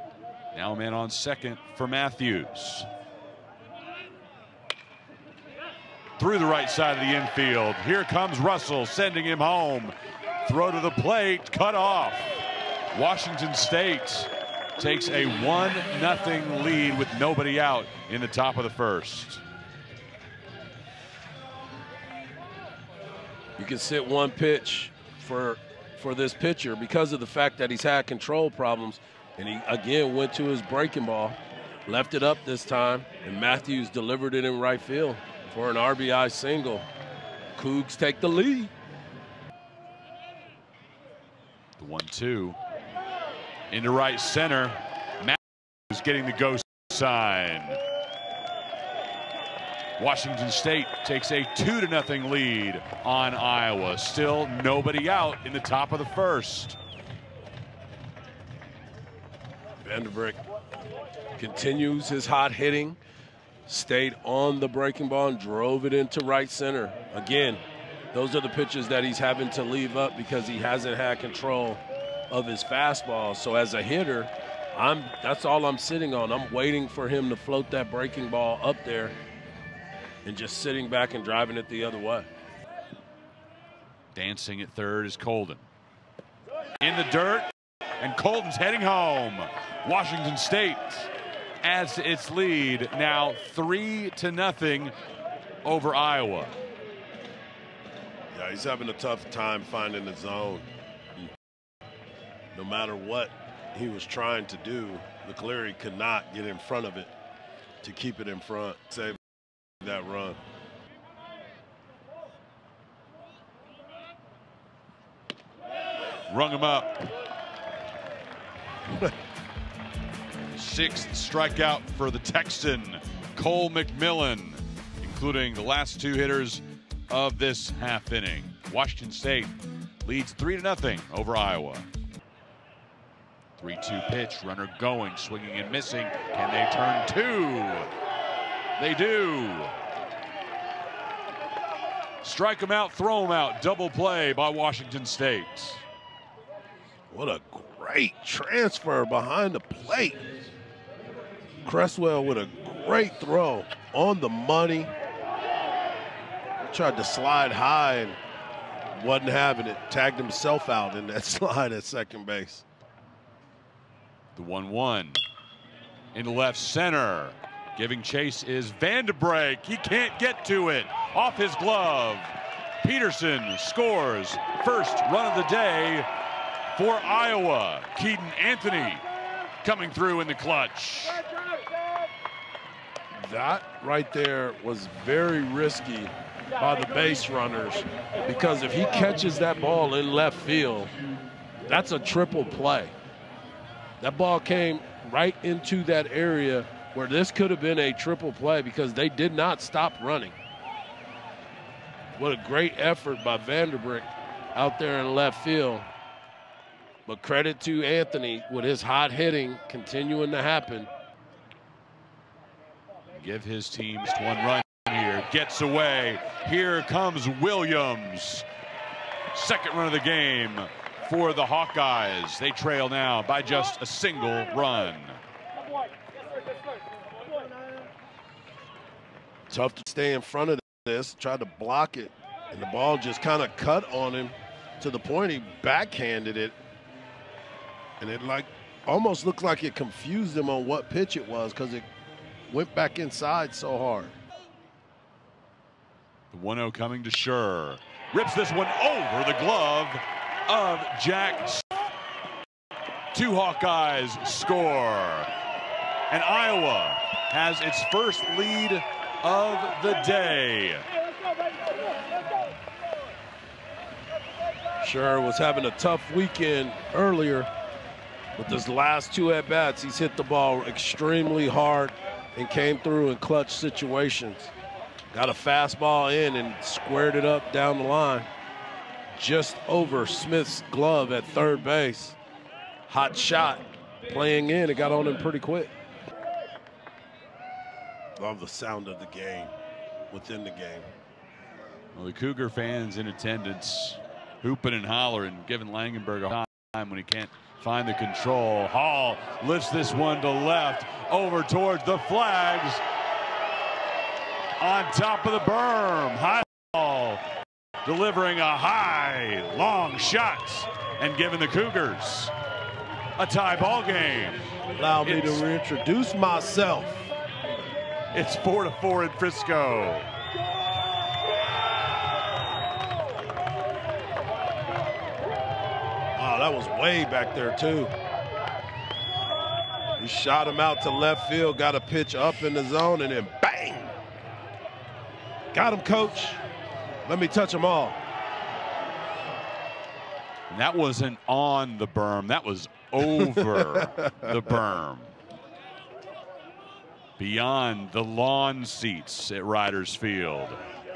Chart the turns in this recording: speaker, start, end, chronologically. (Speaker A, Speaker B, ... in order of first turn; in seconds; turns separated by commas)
Speaker A: 0.5-2.9, Speaker A: 6.2-12.3, Speaker A: 12.9-19.4, Speaker B: 23.6-36.9, Speaker B: 37.5-38.7, Speaker A: 41.8-42.6, Speaker A: 43.7-47.8, Speaker A: 50.0-56.8, Speaker B: 59.8-60.4, Speaker B: 61.4-63.0, Speaker B: 63.6-67.6, Speaker B: 68.1-79.2, Speaker B: 80.2-82.3, Speaker A: 84.1-85.6, Speaker A: 86.8-87.5, Speaker A: 88.0-91.1, Speaker A: 91.6-94.9, Speaker A: 95.6-96.5, Speaker B: 98.3-101.3, Speaker B: 102.5-107.1, Speaker B: 107.8-109.2, Speaker B: 109.8-110.4, Speaker A: 116.3-117.0, Speaker A: 120.5-131.9, Speaker A: 133.6-137.9, Speaker A: 138.8-139.7, Speaker A: 142.2-145.8, Speaker B: 147.1-150.2, Speaker B: 151.6-154.9, Speaker B: 156.7-158.2, Speaker B: 158.9-162.6, Speaker A: 164.3-165.2, Speaker A: 166.1-176.1, Speaker A: 176.7-179.0, Speaker A: 179.6-181.2, Speaker B: 183.2-190.9, Speaker B: 191.7-192.9, Speaker B: 194.0-200.4, Speaker B: 202.2-205.9, Speaker B: 207.1-210.9, Speaker A: 213.1-218.4, Speaker A: 219.3-225.2, Speaker B: 229.5-236.6, Speaker B: 238.0-241.8, Speaker B: 242.5-244.2, Speaker A: 246.3-251.7, Speaker A: 253.1-255.3, Speaker A: 256.1-260.9, Speaker B: 264.8-267.5, Speaker B: 268.4-274.5, Speaker B: 275.1-278.3, Speaker B: 279.1-282.2, Speaker B: 282.9-285.7, Speaker B: 288.2-289.5, Speaker B: 290.1-290.9, Speaker A: 291.9-302.8, Speaker A: 304.6-307.2, Speaker A: 307.8-312.3, Speaker A: 313.2-314.5, Speaker B: 314.7-317.1, Speaker A: 315.0-315.4, Speaker A: 318.1-320.1, Speaker B: 326.1-327.9, Speaker B: 330.0-333.9, Speaker B: 335.5-336.4, Speaker B: 337.1-338.0, Speaker A: 340.5-345.1, Speaker B: 343.2-343.8, Speaker A: 347.2-350.6